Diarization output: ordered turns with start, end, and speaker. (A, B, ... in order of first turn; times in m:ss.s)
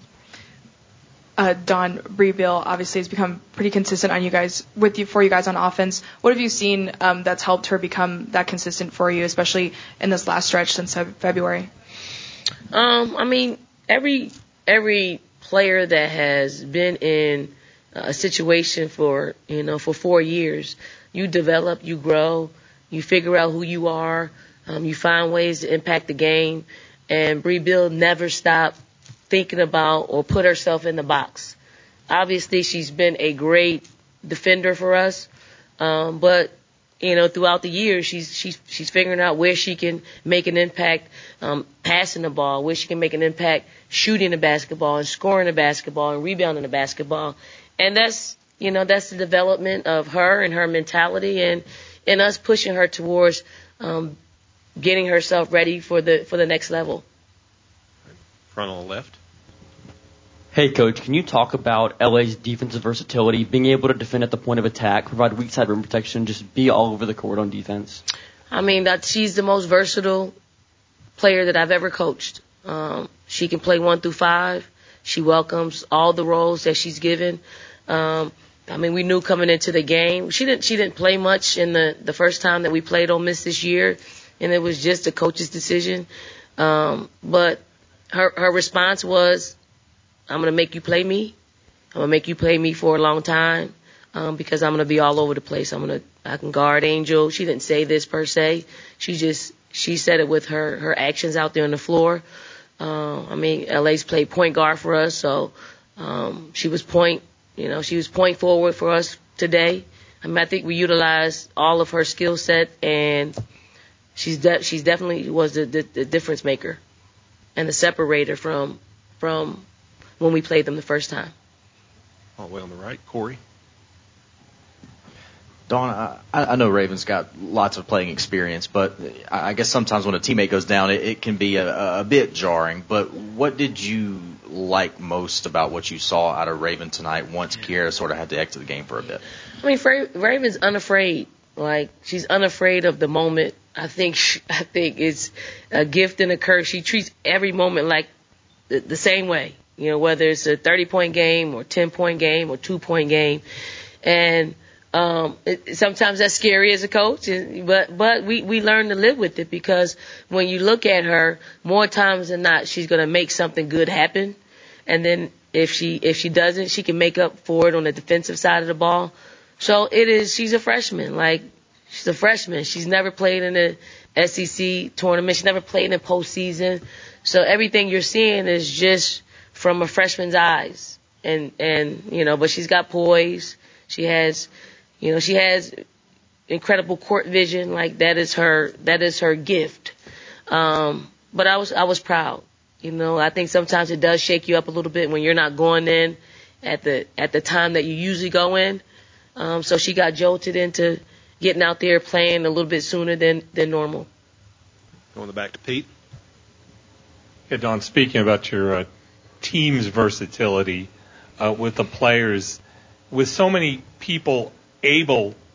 0:01.4-0:11.7 A
0:12.7-0:28.8 B
0:29.3-0:31.6 B
0:32.1-0:35.3 B
0:35.8-0:54.2 B
0:54.8-0:57.0 B
0:58.5-0:59.2 C
1:00.5-1:08.0 D
1:08.5-1:10.4 B
1:11.2-1:26.1 B
1:26.6-1:29.6 B
1:30.3-1:31.4 B
1:31.9-1:42.2 B
1:42.8-1:53.4 B
1:54.2-1:56.8 B
1:57.6-1:59.6 B
2:00.2-2:01.3 B
2:02.4-2:03.4 C
2:05.7-2:19.2 E
2:19.6-2:28.1 B
2:28.7-2:33.4 B
2:34.0-3:04.5 B
3:05.0-3:05.8 B
3:06.5-3:10.0 B
3:10.5-3:18.8 B
3:19.4-3:24.1 B
3:25.2-3:25.9 C
3:27.5-3:28.9 F
3:29.4-3:30.9 F
3:31.4-3:32.6 F
3:33.1-3:35.4 F